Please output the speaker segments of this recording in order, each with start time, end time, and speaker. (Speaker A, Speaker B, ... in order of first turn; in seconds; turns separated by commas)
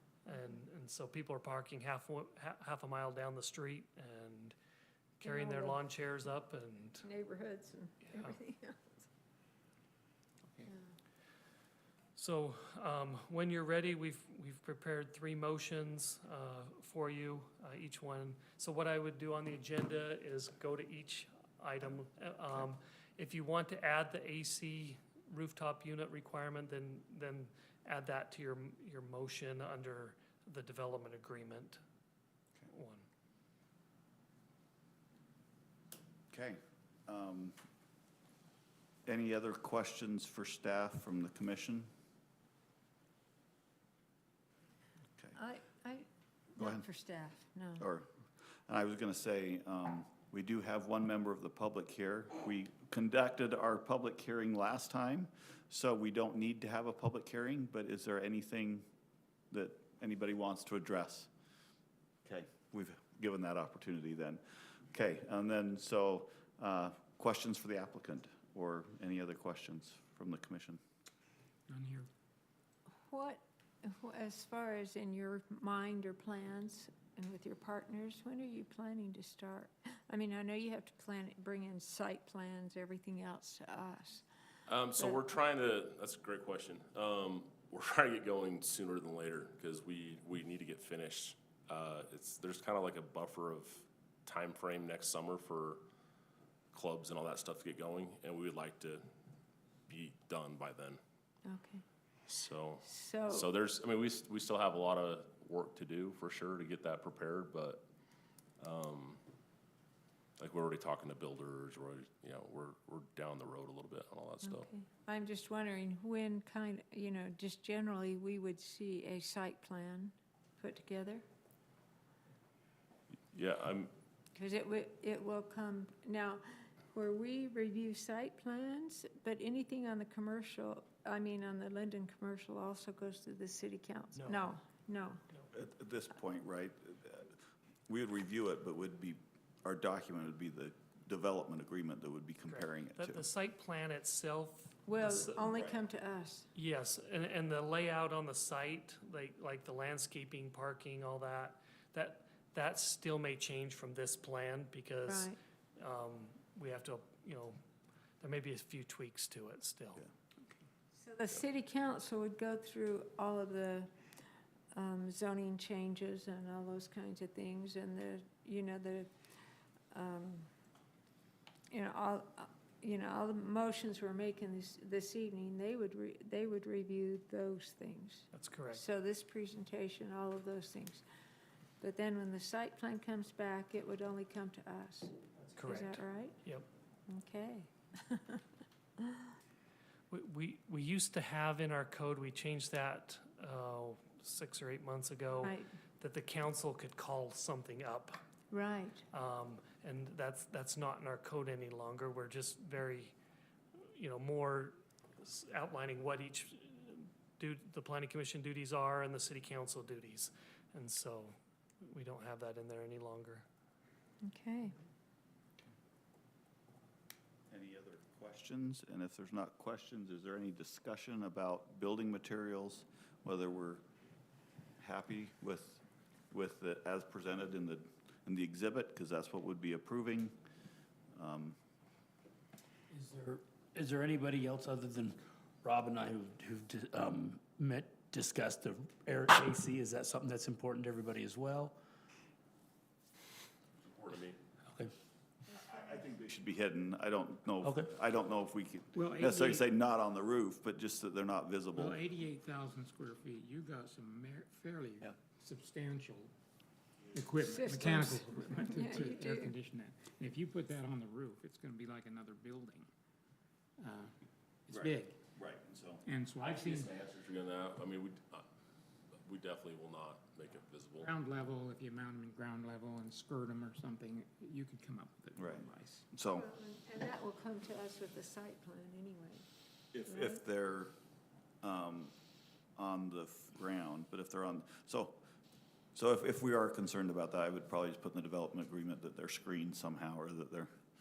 Speaker A: 0.3-4.6, Speaker B: 5.2-5.8, Speaker A: 5.2-7.0, Speaker B: 7.0-9.0, Speaker A: 12.2-31.8, Speaker A: 32.7-33.0, Speaker C: 36.3-37.6, Speaker C: 39.1-41.9, Speaker B: 45.4-47.9, Speaker C: 46.6-46.9, Speaker C: 47.8-48.1, Speaker C: 48.7-58.9, Speaker C: 59.5-61.3, Speaker C: 62.2-70.8, Speaker D: 71.7-72.1, Speaker B: 73.1-84.3, Speaker E: 84.7-95.8, Speaker E: 96.7-99.0, Speaker E: 99.9-101.0, Speaker B: 101.5-101.8, Speaker E: 102.3-107.9, Speaker B: 102.8-103.5, Speaker E: 108.6-109.2, Speaker E: 110.4-114.7, Speaker B: 114.4-121.2, Speaker E: 123.3-123.9, Speaker B: 124.3-135.2, Speaker A: 134.2-134.5, Speaker C: 135.5-137.4, Speaker C: 137.9-143.3, Speaker A: 142.5-145.4, Speaker B: 144.9-146.5, Speaker C: 145.4-145.8, Speaker A: 146.6-157.6, Speaker B: 155.1-155.4, Speaker A: 158.2-160.0, Speaker B: 160.9-163.9, Speaker B: 164.7-169.1, Speaker B: 169.9-170.5, Speaker B: 171.7-181.0, Speaker A: 178.3-178.8, Speaker B: 181.8-186.4, Speaker A: 185.6-186.7, Speaker B: 187.1-188.4, Speaker B: 189.0-189.3, Speaker A: 190.1-198.2, Speaker B: 195.4-195.7, Speaker B: 198.5-199.1, Speaker A: 199.1-203.2, Speaker A: 203.9-213.5, Speaker B: 214.2-214.8, Speaker C: 217.5-223.8, Speaker C: 224.8-230.4, Speaker C: 231.2-231.6, Speaker F: 232.9-241.8, Speaker E: 243.8-244.4, Speaker F: 244.7-244.9, Speaker C: 245.6-252.0, Speaker F: 247.6-247.9, Speaker D: 248.9-249.6, Speaker D: 251.7-256.3, Speaker D: 257.1-262.9, Speaker B: 257.4-259.5, Speaker D: 263.8-264.1, Speaker D: 264.7-265.1, Speaker C: 264.7-266.0, Speaker D: 266.1-266.9, Speaker E: 266.4-268.4, Speaker E: 269.2-271.1, Speaker D: 271.0-276.1, Speaker C: 275.4-276.5, Speaker B: 276.3-279.4, Speaker C: 279.9-280.9, Speaker B: 280.1-280.4, Speaker C: 281.6-282.1, Speaker C: 282.8-285.2, Speaker C: 285.9-290.7